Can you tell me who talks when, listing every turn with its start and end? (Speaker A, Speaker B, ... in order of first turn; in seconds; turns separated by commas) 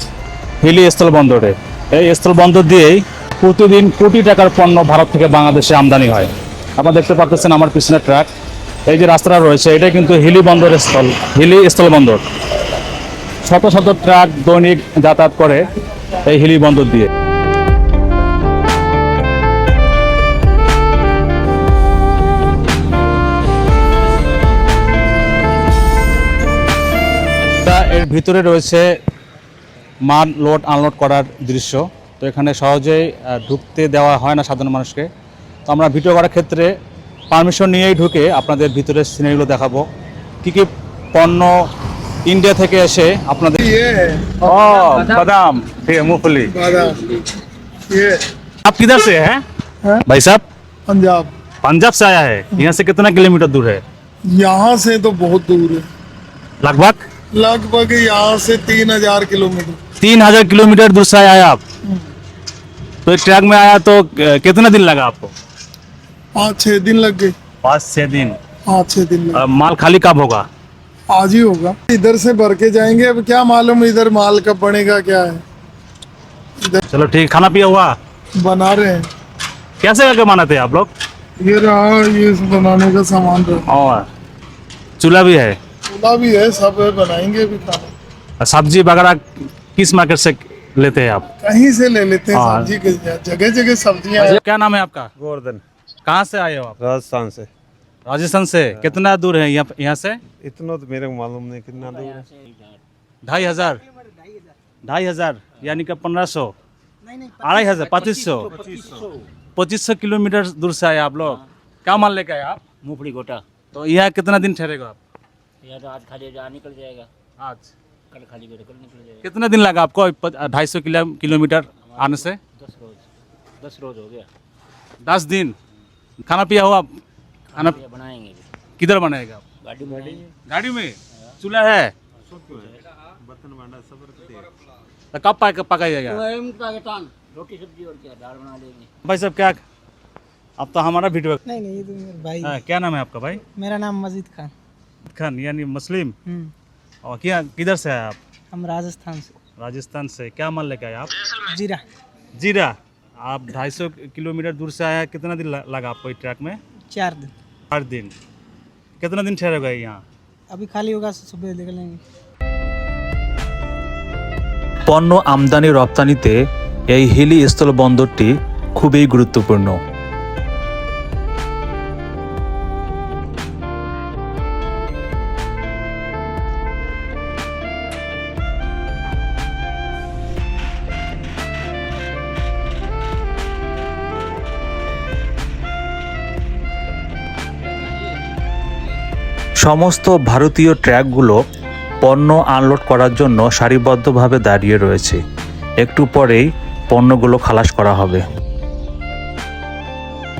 Speaker A: 0.6-8.3, Speaker A: 8.9-12.2, Speaker A: 13.4-15.7, Speaker A: 16.2-17.1, Speaker A: 27.6-28.9, Speaker A: 30.0-35.1, Speaker A: 35.7-36.8, Speaker A: 37.3-39.9, Speaker A: 40.4-41.7, Speaker A: 42.2-43.6, Speaker B: 43.6-44.8, Speaker A: 44.4-46.5, Speaker B: 46.5-47.0, Speaker B: 47.9-48.2, Speaker A: 48.6-49.4, Speaker A: 50.1-50.4, Speaker B: 50.9-51.3, Speaker A: 51.6-53.8, Speaker B: 54.3-55.9, Speaker A: 56.6-57.1, Speaker B: 57.3-59.8, Speaker A: 60.0-61.6, Speaker A: 63.0-65.3, Speaker B: 66.3-67.3, Speaker A: 67.6-68.4, Speaker B: 68.7-69.5, Speaker A: 69.3-70.5, Speaker B: 71.1-75.4, Speaker A: 76.9-78.0, Speaker B: 78.4-79.1, Speaker A: 79.8-80.9, Speaker B: 81.4-83.6, Speaker A: 83.7-84.1, Speaker A: 85.0-85.6, Speaker B: 85.9-87.9, Speaker A: 88.4-89.2, Speaker A: 89.8-91.3, Speaker B: 91.4-94.4, Speaker A: 92.3-92.7, Speaker A: 94.2-95.1, Speaker C: 95.2-95.6, Speaker A: 96.1-96.8, Speaker C: 96.8-97.5, Speaker A: 98.1-100.2, Speaker C: 98.7-99.0, Speaker C: 100.4-102.3, Speaker D: 101.9-102.8, Speaker A: 103.2-103.8, Speaker E: 104.0-104.5, Speaker A: 104.8-106.5, Speaker E: 107.0-108.9, Speaker A: 107.4-108.5, Speaker C: 108.3-109.1, Speaker A: 109.6-112.8, Speaker D: 112.8-113.4, Speaker A: 113.7-115.0, Speaker D: 115.6-117.1, Speaker A: 117.4-117.7, Speaker D: 118.1-119.3, Speaker A: 119.2-122.4, Speaker D: 121.8-123.0, Speaker D: 123.6-124.3, Speaker A: 125.0-125.6, Speaker A: 126.2-126.9, Speaker A: 127.5-127.8, Speaker D: 127.6-128.5, Speaker A: 128.8-129.4, Speaker D: 129.6-130.3, Speaker A: 130.4-131.9, Speaker C: 132.3-134.5, Speaker A: 135.1-136.2, Speaker D: 136.1-138.9, Speaker A: 139.0-139.6, Speaker A: 140.6-141.4, Speaker E: 141.4-142.6, Speaker A: 142.4-143.4, Speaker E: 143.5-144.5, Speaker A: 145.1-146.2, Speaker E: 146.3-146.5, Speaker A: 147.0-148.2, Speaker E: 148.5-149.3, Speaker A: 149.6-151.4, Speaker E: 151.4-151.8, Speaker A: 152.3-156.6, Speaker E: 156.9-157.3, Speaker A: 157.7-158.1, Speaker A: 159.0-160.0, Speaker E: 160.5-162.0, Speaker F: 164.9-166.4, Speaker F: 166.9-169.8, Speaker F: 189.6-191.4, Speaker F: 192.0-195.2, Speaker F: 195.8-198.2